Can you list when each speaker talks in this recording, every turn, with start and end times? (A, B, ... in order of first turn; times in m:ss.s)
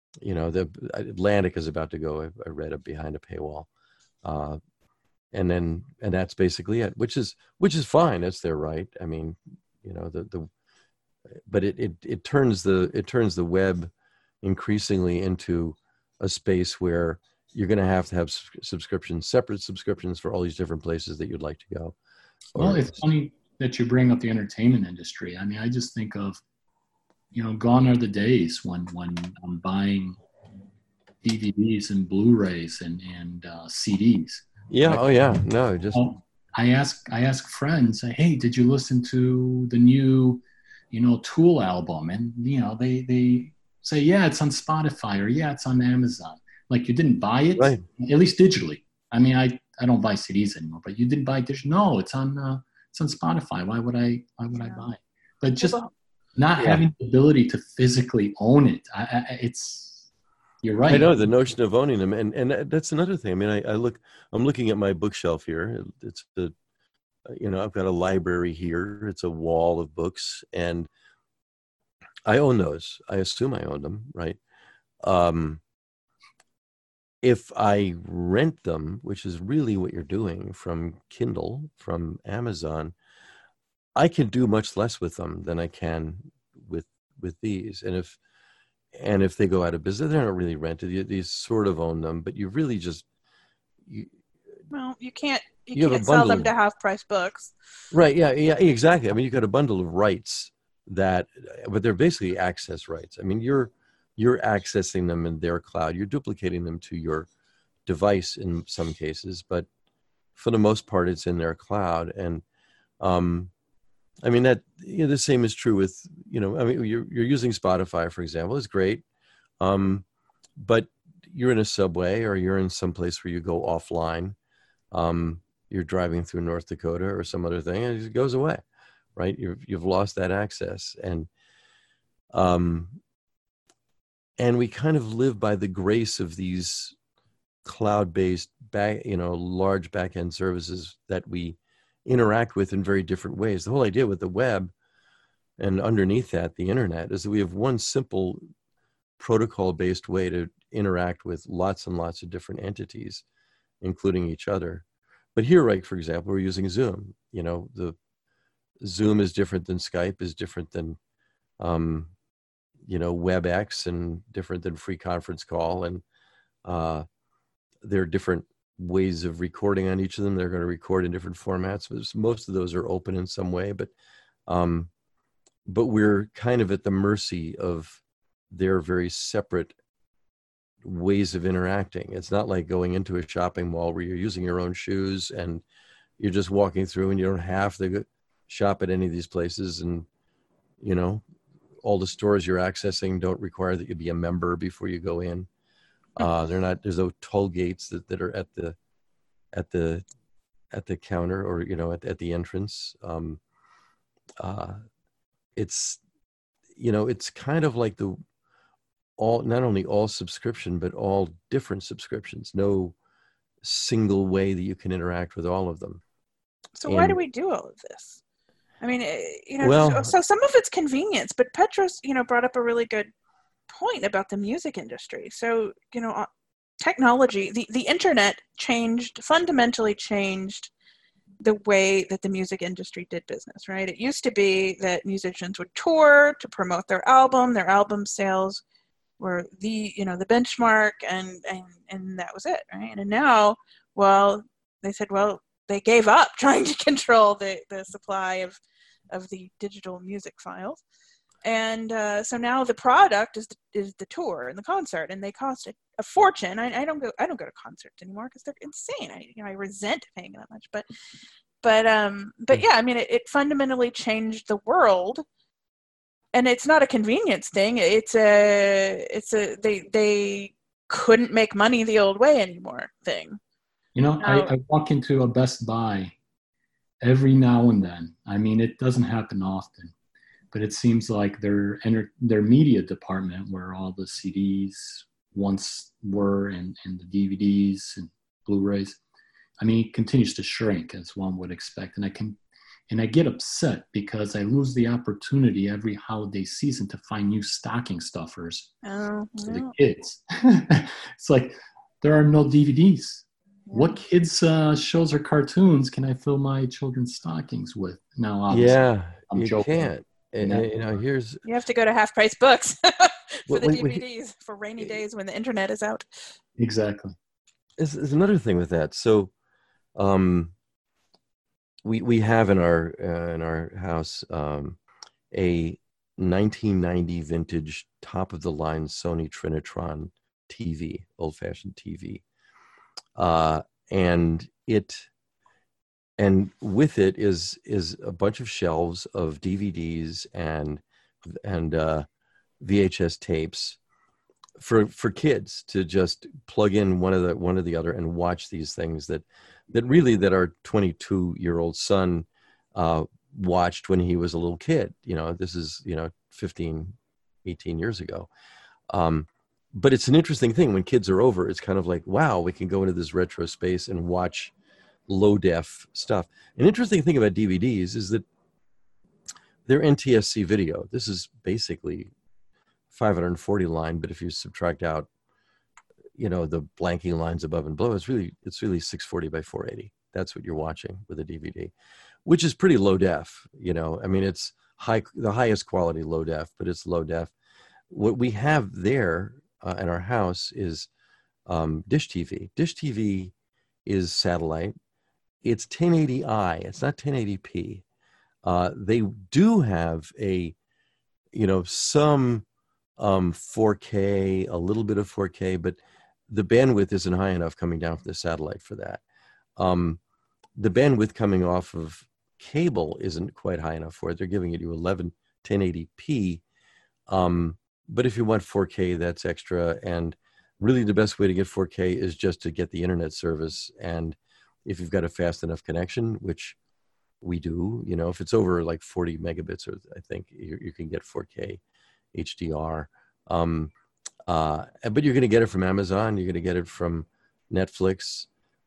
0:00.2-0:03.7 A
0:04.2-0:04.6 A
0:05.3-0:10.5 A
0:11.5-0:22.0 A
0:22.5-0:22.9 A
0:22.6-0:26.4 B
0:27.3-0:30.2 B
0:31.2-0:35.1 B
0:34.7-0:36.1 A
0:35.9-0:55.8 B
0:47.6-0:47.8 A
0:55.6-0:55.9 C
0:56.4-1:00.1 B
0:56.6-0:56.8 A
1:00.6-1:01.2 B
1:00.9-1:06.5 A
1:07.3-1:10.9 A
1:12.3-1:14.4 A
1:15.0-1:15.6 A
1:17.2-1:22.9 A
1:24.0-1:28.2 A
1:28.9-1:33.0 A
1:33.8-1:34.1 A
1:34.7-1:37.5 C
1:35.7-1:36.5 A
1:37.9-1:47.3 A
1:47.8-1:49.7 A
1:50.4-1:52.4 A
1:53.0-1:53.5 A
1:54.2-1:59.0 A
1:59.6-2:00.0 A
2:00.6-2:04.4 A
2:04.9-2:08.6 A
2:09.1-2:11.3 A
2:12.3-2:13.0 A
2:14.4-2:17.0 A
2:17.6-2:24.7 A
2:25.6-2:28.4 A
2:29.2-2:33.2 A
2:33.8-2:38.0 A
2:38.8-2:41.0 A
2:41.6-2:42.1 A
2:42.8-2:46.0 A
2:46.6-2:47.0 A
2:47.8-2:53.9 A
2:54.5-2:54.9 A
2:55.6-2:59.7 A
3:00.8-3:05.6 A
3:06.2-3:10.1 A
3:10.8-3:11.2 A
3:11.8-3:15.5 A
3:16.2-3:18.8 A
3:19.5-3:20.0 A
3:20.7-3:23.4 A
3:24.4-3:24.8 A
3:25.6-3:26.0 A
3:26.8-3:28.2 A
3:29.2-3:32.9 A
3:33.6-3:36.0 A
3:36.8-3:38.2 C
3:36.8-3:37.2 A
3:38.8-3:43.1 C
3:39.6-3:40.1 A
3:43.7-3:46.3 C
3:46.8-3:50.7 C
3:51.4-3:58.6 C
3:59.2-4:08.6 C
4:09.1-4:10.8 C
4:11.4-4:20.9 C
4:21.6-4:25.2 C
4:26.3-4:33.4 C
4:33.9-4:36.1 B
4:34.2-4:34.5 C
4:37.0-4:39.9 B
4:40.5-4:49.0 B
4:49.6-4:52.4 B
4:52.9-4:58.7 B
4:58.8-4:59.7 C
4:59.5-5:10.7 B
5:03.7-5:04.0 C
5:08.5-5:11.4 A
5:11.4-5:16.0 C
5:13.5-5:14.0 A
5:16.6-5:17.2 B
5:17.8-5:19.3 A
5:20.0-5:20.5 A
5:21.8-5:24.8 A
5:25.3-5:32.2 A
5:33.2-5:35.1 A
5:36.2-5:42.0 A
5:42.6-5:43.8 A
5:44.6-5:58.3 A
5:58.9-6:04.5 A
6:05.1-6:08.2 A
6:09.6-6:12.1 A
6:12.9-6:15.1 A
6:16.2-6:21.7 A
6:22.2-6:27.3 A
6:27.9-6:30.9 A
6:31.5-6:33.3 A
6:33.8-6:34.7 A
6:35.4-6:37.8 A
6:38.4-6:40.5 A
6:41.3-6:42.4 A
6:43.0-6:45.8 A
6:46.3-6:49.0 A
6:49.6-6:50.0 A
6:50.6-6:56.4 A
6:57.1-7:06.6 A
7:07.2-7:11.6 A
7:12.1-7:13.7 A
7:14.3-7:18.3 A